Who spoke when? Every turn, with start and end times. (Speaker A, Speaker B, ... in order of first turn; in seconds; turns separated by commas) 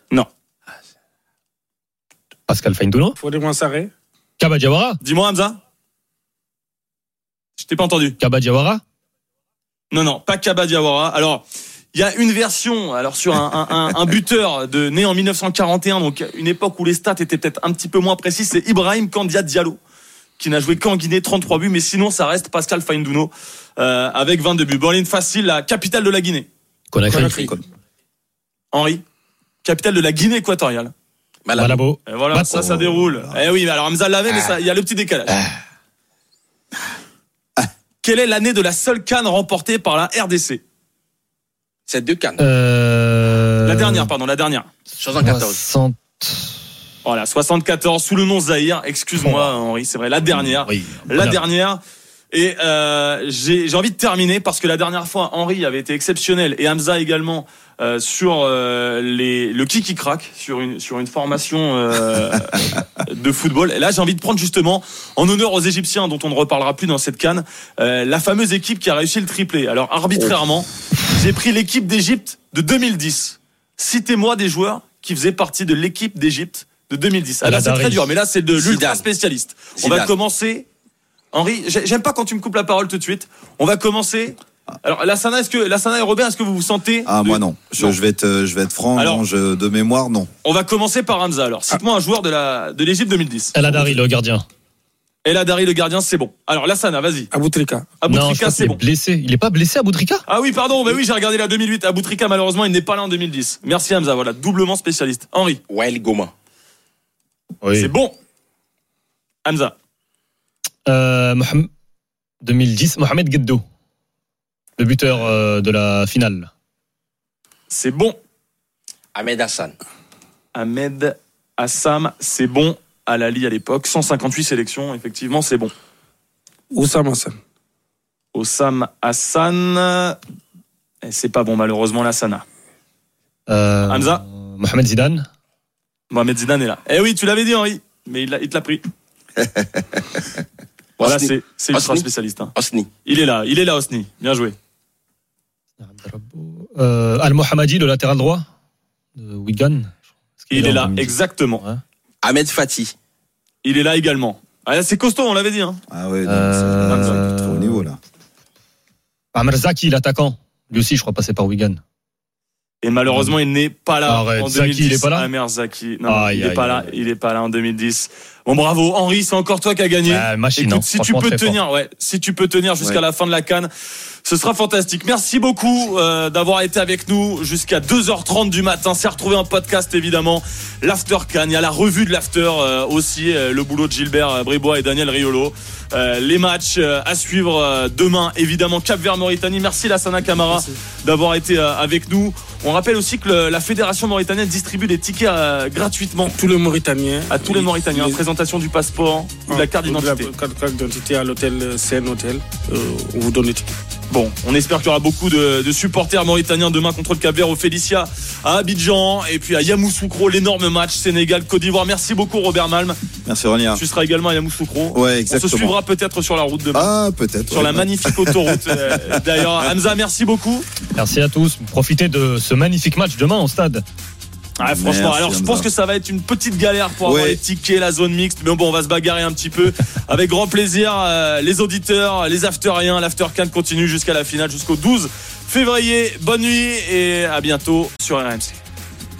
Speaker A: 2.5-3.2, Speaker B: 3.2-3.9, Speaker A: 4.4-5.0, Speaker C: 5.0-5.6, Speaker C: 7.6-8.2, Speaker A: 8.2-8.8, Speaker C: 9.9-19.8, Speaker C: 20.4-26.5, Speaker A: 26.9-27.3, Speaker B: 27.1-27.4, Speaker D: 27.2-27.5, Speaker E: 27.3-27.6, Speaker C: 28.7-29.0, Speaker C: 29.6-30.9, Speaker D: 31.4-31.8, Speaker A: 31.6-32.6, Speaker C: 32.1-35.4, Speaker E: 32.5-33.4, Speaker D: 34.3-34.5, Speaker C: 38.0-40.6, Speaker D: 41.9-42.4, Speaker A: 42.4-44.1, Speaker C: 43.6-44.7, Speaker D: 45.0-45.6, Speaker A: 45.2-46.5, Speaker C: 47.0-51.8, Speaker A: 49.2-49.5, Speaker A: 50.3-51.4, Speaker C: 52.3-80.7, Speaker A: 77.4-78.0, Speaker D: 78.5-79.0, Speaker D: 79.8-80.1, Speaker C: 81.3-88.0, Speaker E: 87.1-90.3, Speaker C: 89.0-89.2, Speaker C: 90.4-93.8, Speaker A: 93.5-94.5, Speaker C: 95.2-97.3, Speaker B: 97.3-97.9, Speaker C: 98.0-98.8, Speaker A: 98.1-100.2, Speaker C: 100.3-105.6, Speaker D: 105.7-106.3, Speaker A: 107.6-107.9, Speaker C: 107.8-108.1, Speaker C: 109.5-109.8, Speaker A: 110.9-111.7, Speaker A: 112.4-113.6, Speaker A: 114.8-116.5, Speaker C: 117.7-118.2, Speaker D: 119.1-119.8, Speaker C: 120.5-125.7, Speaker B: 126.7-127.4, Speaker C: 128.3-130.2, Speaker C: 131.0-132.4, Speaker A: 133.5-135.3, Speaker C: 133.9-134.2, Speaker C: 136.1-138.9, Speaker D: 141.0-142.9, Speaker C: 141.0-142.5, Speaker C: 143.0-144.6, Speaker A: 145.8-148.4, Speaker A: 149.2-151.8, Speaker C: 150.5-151.6, Speaker D: 152.2-152.9, Speaker C: 153.6-155.8, Speaker E: 155.9-158.0, Speaker A: 156.2-157.8, Speaker C: 156.9-157.2, Speaker A: 159.3-161.8, Speaker C: 162.8-173.7, Speaker A: 163.1-163.3, Speaker A: 164.1-165.3, Speaker A: 166.1-166.9, Speaker A: 170.1-171.6, Speaker C: 174.2-196.4, Speaker B: 190.4-190.8, Speaker B: 196.2-198.2, Speaker C: 197.3-200.3, Speaker B: 199.5-203.7, Speaker C: 204.1-213.0, Speaker E: 213.2-213.8, Speaker C: 213.7-216.9, Speaker E: 214.9-215.8, Speaker E: 216.7-218.6, Speaker C: 217.5-220.7, Speaker A: 220.9-223.8, Speaker C: 224.6-238.6, Speaker E: 224.6-225.7, Speaker E: 227.0-227.4